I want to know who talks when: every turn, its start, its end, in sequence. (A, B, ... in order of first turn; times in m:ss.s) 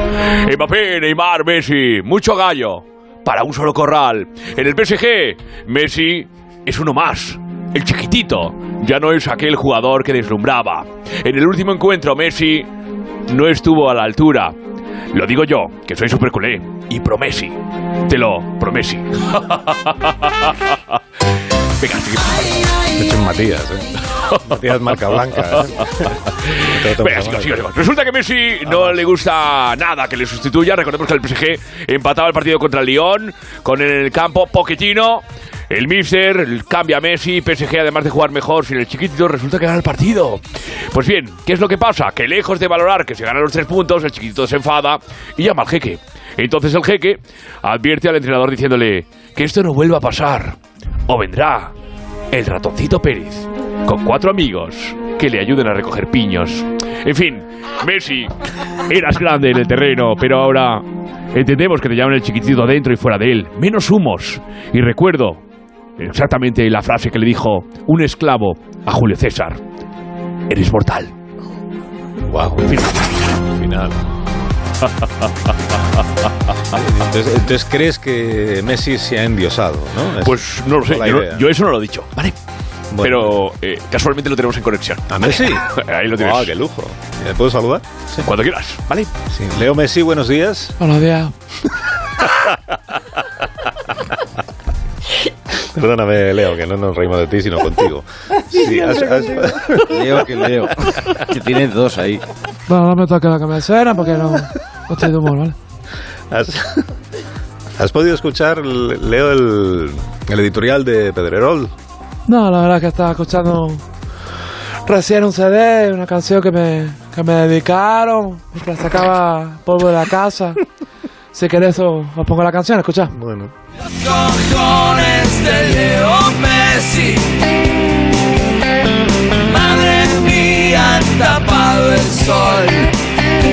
0:00.3-0:12.7 A
0:13.3-0:14.6 A
0:15.1-0:21.0 A
0:21.8-0:22.6 A
0:23.0-0:23.9 B
0:24.4-0:27.7 B
0:25.2-0:25.6 A
0:26.4-0:40.4 A
0:28.6-0:29.1 B
0:40.9-0:50.6 A
0:51.1-0:51.7 A
0:52.3-0:58.3 A
0:58.9-1:05.4 A
1:06.0-1:09.6 A
1:10.5-1:11.1 A
1:12.3-1:12.9 B
1:12.7-1:13.1 A
1:13.5-1:14.0 B
1:16.7-1:21.4 B
1:20.2-1:22.4 A
1:22.9-1:23.4 B
1:23.0-1:26.5 A
1:25.1-1:28.3 B
1:28.2-1:29.1 A
1:29.3-1:30.8 B
1:30.8-1:31.3 C
1:35.7-1:40.1 B
1:39.8-1:42.2 D
1:42.7-1:45.6 C
1:46.3-1:46.9 B
1:47.8-1:51.7 B
1:52.3-1:53.8 C
1:54.8-2:00.6 C
2:01.3-2:03.1 C
2:03.1-2:03.5 B
2:03.8-2:07.4 E
2:09.4-2:12.9 E